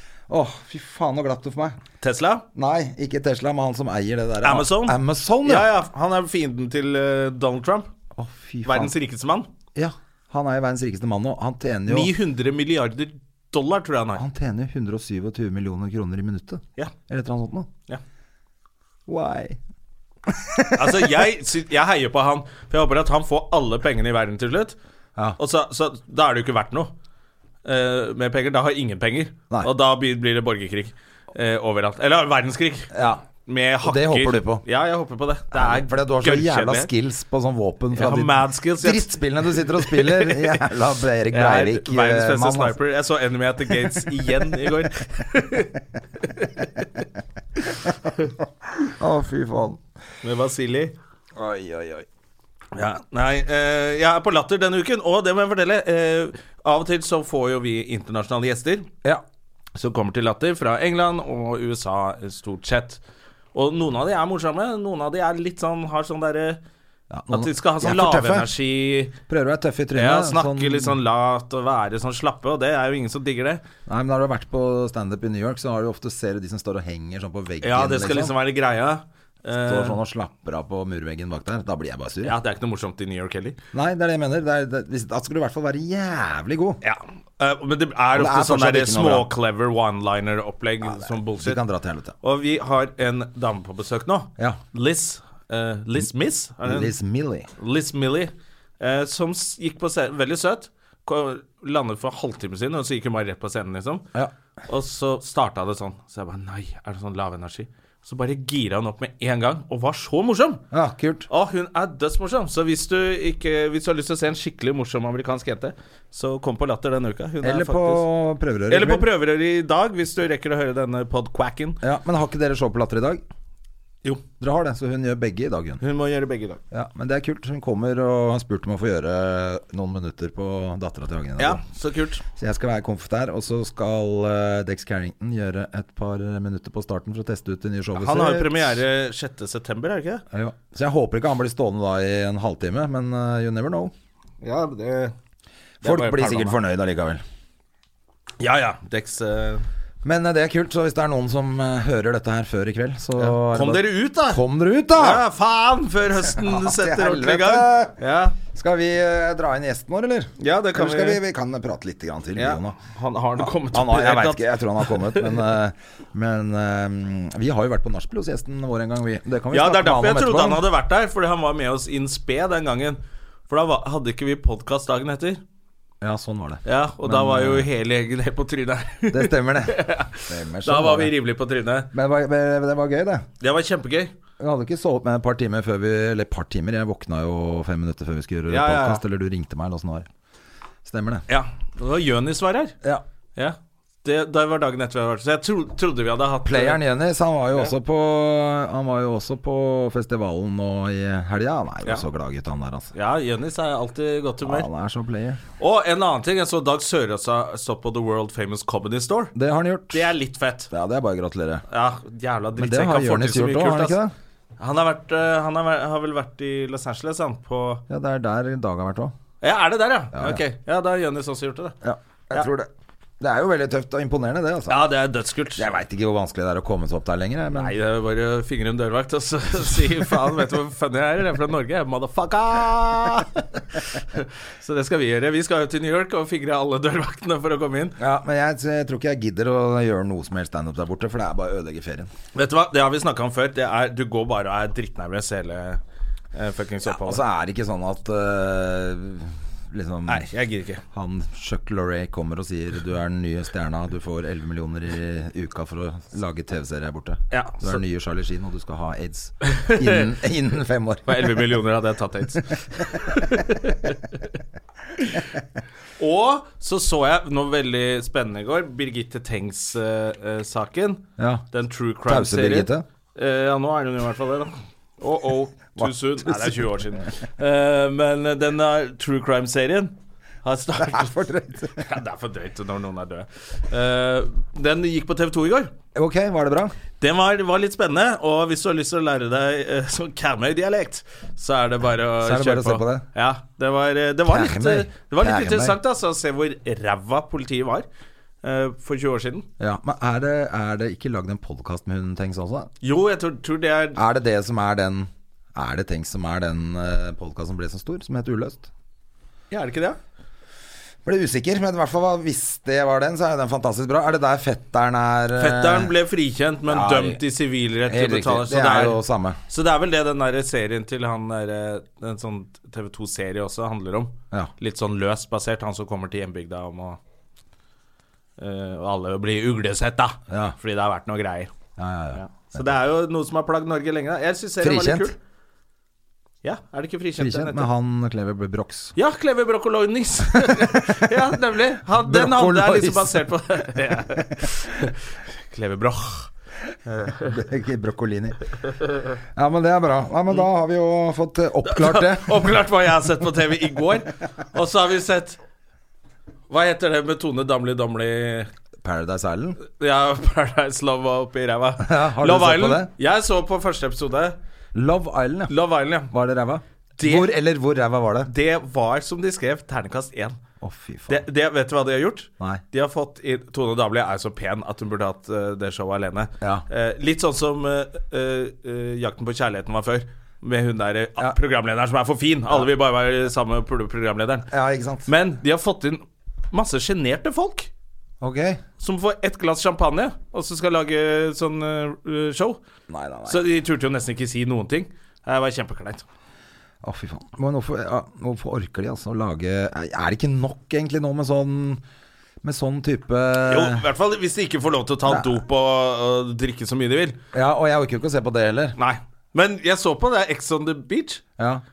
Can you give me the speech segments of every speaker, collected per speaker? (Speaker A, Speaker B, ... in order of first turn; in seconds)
Speaker A: 0.3-1.8, 2.5-5.7, 8.2-8.9, 9.7-12.1, 14.2-17.7, 19.1-19.6, 20.3-21.2, 32.9-33.2, 33.8-34.6, 35.5-42.8, 48.8-49.8, 51.4-52.0, 67.1-68.5, 69.3-71.0, 73.8-78.3, 79.6-82.4, 83.7-86.8, 88.1-89.3, 90.8-92.1, 96.6-97.5, 110.7-111.3, 117.4-119.1, 121.8-123.2, 124.4-125.8, 126.7-131.6, 132.3-138.8, 140.3-143.9, 145.8-147.2, 150.0-155.2, 156.3-157.9, 158.5-162.8, 163.4-170.7, 176.0-177.7, 179.1-181.1, 181.9-183.2, 184.4-190.1, 190.8-191.2, 196.4-202.9, 204.4-205.4, 209.3-210.1, 210.7-211.6, 212.6-214.1, 217.9-219.1, 220.1-220.4, 221.8-222.7, 223.2-224.8, 225.6-227.7, 238.0-242.1, 246.8-250.3, 250.9-261.5, 271.2-271.4, 272.1-272.8, 275.8-276.7, 280.8-281.9, 285.9-286.7, 292.2-293.0, 294.3-295.8, 299.6-302.7, 303.9-308.7, 311.0-315.9, 316.6-317.2, 317.9-319.4, 330.3-330.6, 331.8-332.6, 334.6-335.1, 337.2-338.9, 342.0-343.3, 347.2-348.4, 349.3-352.5, 358.8-359.6, 361.8-362.9, 364.7-365.5, 366.1-368.3, 370.6-371.2, 384.5-385.1, 388.2-388.6, 392.9-393.4, 396.8-401.8, 402.4-403.8, 407.3-408.8, 411.4-411.6
Speaker B: 2.0-2.4, 4.4-7.9, 8.6-9.5, 11.9-14.2, 20.7-24.8, 25.4-26.9, 27.6-32.9, 33.4-36.9, 37.9-39.0, 39.6-40.6, 41.3-46.9, 50.2-50.9, 52.7-58.9, 59.7-63.0, 63.5-66.6, 67.3-69.2, 69.9-73.6, 77.6-80.0, 82.2-83.6, 86.8-91.6, 92.2-96.9, 97.6-104.0, 104.7-110.6, 111.3-118.0, 118.7-121.8, 125.8-126.6, 131.4-132.2, 137.9-140.2, 144.4-145.1, 145.8-146.6, 148.4-149.6, 153.2-154.4, 154.9-158.4, 160.4-161.2, 162.3-165.4, 169.5-175.4, 176.7-181.9, 183.4-184.1, 188.5-189.0, 191.3-192.8, 193.3-196.8, 202.9-204.7, 205.6-209.3, 209.9-210.7, 211.7-213.9, 214.6-217.8, 219.4-221.8, 224.7-225.7, 227.5-233.5, 234.1-238.0, 242.3-245.8, 246.3-247.2, 250.1-250.8, 257.3-257.8, 259.4-260.1, 261.1-264.1, 266.0-285.7, 287.0-297.9, 298.4-299.5, 302.8-304.0, 309.5-310.0, 315.4-327.0, 328.4-331.5, 332.1-335.1, 336.4-337.7, 338.9-346.3, 346.9-347.3, 351.6-355.4, 356.5-358.5, 359.6-364.4, 365.5-366.1, 367.0-367.3, 368.2-370.4, 371.1-384.5, 385.1-387.7, 388.8-392.6, 393.2-396.0, 403.4-407.2, 408.8-411.2